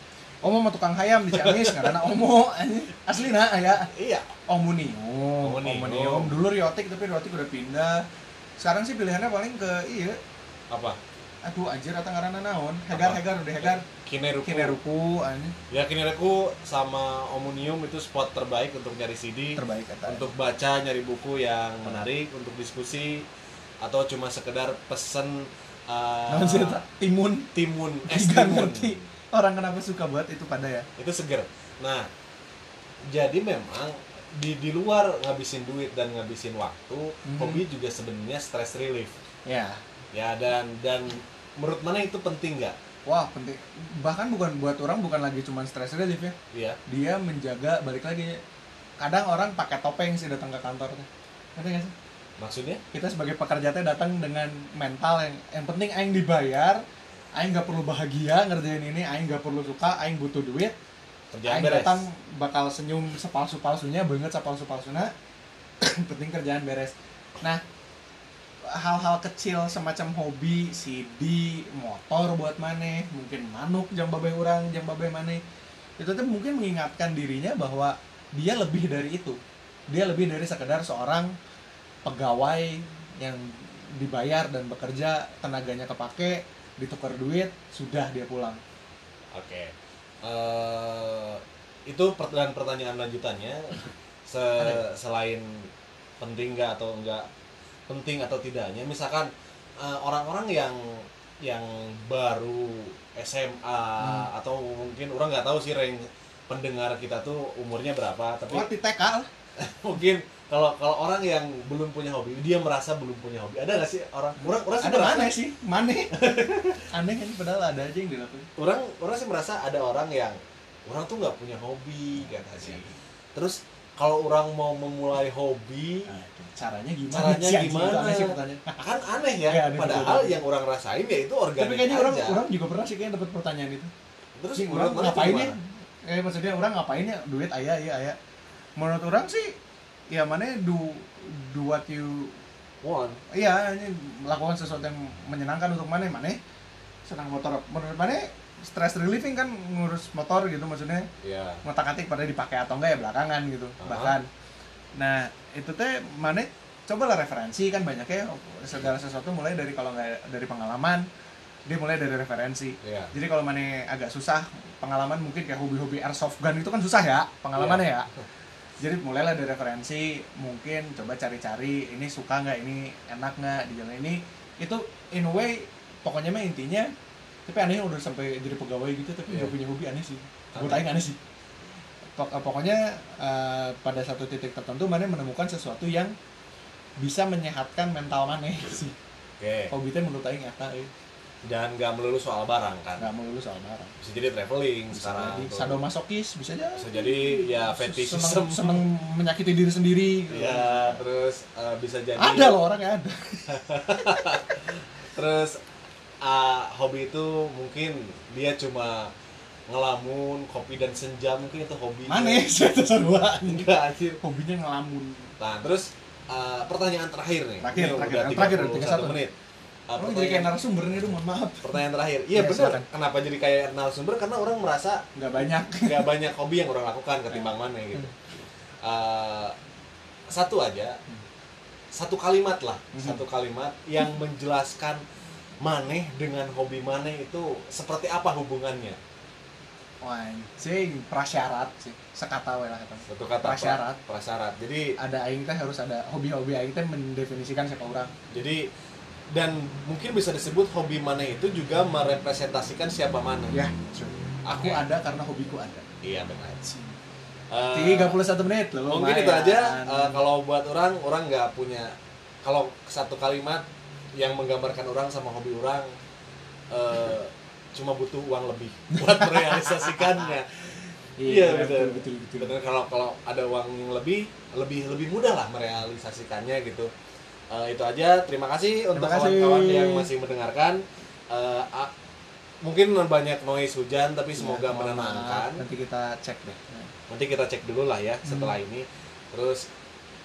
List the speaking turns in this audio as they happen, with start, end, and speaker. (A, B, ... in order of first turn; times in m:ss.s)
0:00.4-0:03.9 A
0:01.3-0:02.0 B
0:03.9-0:04.3 B
0:04.5-0:08.0 A
0:05.4-0:06.3 B
0:08.6-0:10.2 A
0:10.7-0:11.0 B
0:11.4-0:13.8 A
0:12.9-0:14.8 B
0:14.4-0:15.5 A
0:15.7-0:23.2 B
0:19.6-0:20.3 A
0:23.8-0:26.8 B
0:26.3-0:27.5 A
0:27.5-0:29.0 B
0:28.1-0:30.9 A
0:31.0-0:32.1 B
0:33.1-0:39.1 B
0:37.2-0:37.6 A
0:39.4-0:39.8 A
0:40.1-0:42.8 B
0:43.0-0:46.4 A
0:46.5-0:46.8 B
0:46.9-0:48.4 A
0:49.0-0:51.9 A
0:52.4-0:52.8 B
0:52.9-0:56.8 A
0:57.4-1:00.7 A
1:01.3-1:02.0 B
1:01.4-1:05.1 A
1:05.8-1:07.6 A
1:08.7-1:15.4 A
1:16.0-1:19.4 A
1:19.9-1:21.3 A
1:22.0-1:28.6 A
1:29.3-1:37.3 B
1:37.9-1:48.7 B
1:44.0-1:44.3 A
1:48.5-1:49.3 A
1:49.6-1:55.3 B
1:54.5-1:56.2 A
1:56.1-1:56.9 B
1:56.9-1:58.5 A
1:58.6-2:06.1 B
2:06.1-2:08.8 A
2:07.1-2:12.4 B
2:09.5-2:10.4 A
2:11.6-2:13.9 A
2:14.4-2:15.5 B
2:14.6-2:18.2 A
2:18.8-2:19.5 A
2:20.1-2:22.3 A
2:22.8-2:23.2 B
2:23.3-2:26.4 A
2:27.1-2:31.1 A
2:31.2-2:31.6 B
2:31.6-2:34.3 A
2:33.8-2:34.2 B
2:35.0-2:41.1 A
2:41.7-2:48.1 A
2:42.8-2:43.1 B
2:47.6-2:48.2 B
2:48.8-2:56.9 A
2:57.5-3:01.2 A
2:59.3-2:59.5 B
3:00.5-3:00.9 B
3:02.2-3:06.1 A
3:07.0-3:09.0 A
3:09.4-3:09.7 B
3:09.7-3:10.9 A
3:11.4-3:13.1 B
3:13.0-3:13.9 A
3:14.0-3:15.8 B
3:14.9-3:21.0 A
3:16.8-3:18.8 B
3:20.3-3:22.6 B
3:22.2-3:24.6 A
3:23.5-3:25.6 B
3:26.2-3:29.1 B
3:29.7-3:32.5 B
3:32.1-3:33.7 A
3:33.4-3:34.2 B
3:34.2-3:35.3 A
3:35.4-3:39.3 B
3:37.6-3:39.2 A
3:39.9-3:40.5 B
3:40.0-3:42.9 A
3:41.6-3:45.0 B
3:45.2-3:46.1 A
3:45.8-3:48.1 B
3:47.3-3:48.1 A
3:48.8-3:49.5 B
3:50.3-3:51.0 B
3:51.9-3:55.0 B
3:52.9-3:53.2 A
3:55.6-3:59.0 B
4:00.0-4:04.0 A
4:03.1-4:05.0 B
4:05.0-4:08.1 A
4:08.3-4:08.7 B
4:09.3-4:13.6 B
4:13.5-4:15.9 A
4:14.4-4:14.8 B
4:16.0-4:16.7 B
4:16.7-4:16.9 A
4:17.5-4:18.2 B
4:17.7-4:20.2 A
4:18.8-4:25.9 B
4:26.7-4:30.6 B
4:28.9-4:29.9 A
4:31.2-4:32.5 A
4:31.2-4:36.9 B
4:37.5-4:41.9 B
4:38.9-4:40.1 A
4:42.6-4:45.6 B
4:44.3-4:46.9 A
4:47.1-4:49.7 B
4:48.2-4:48.5 A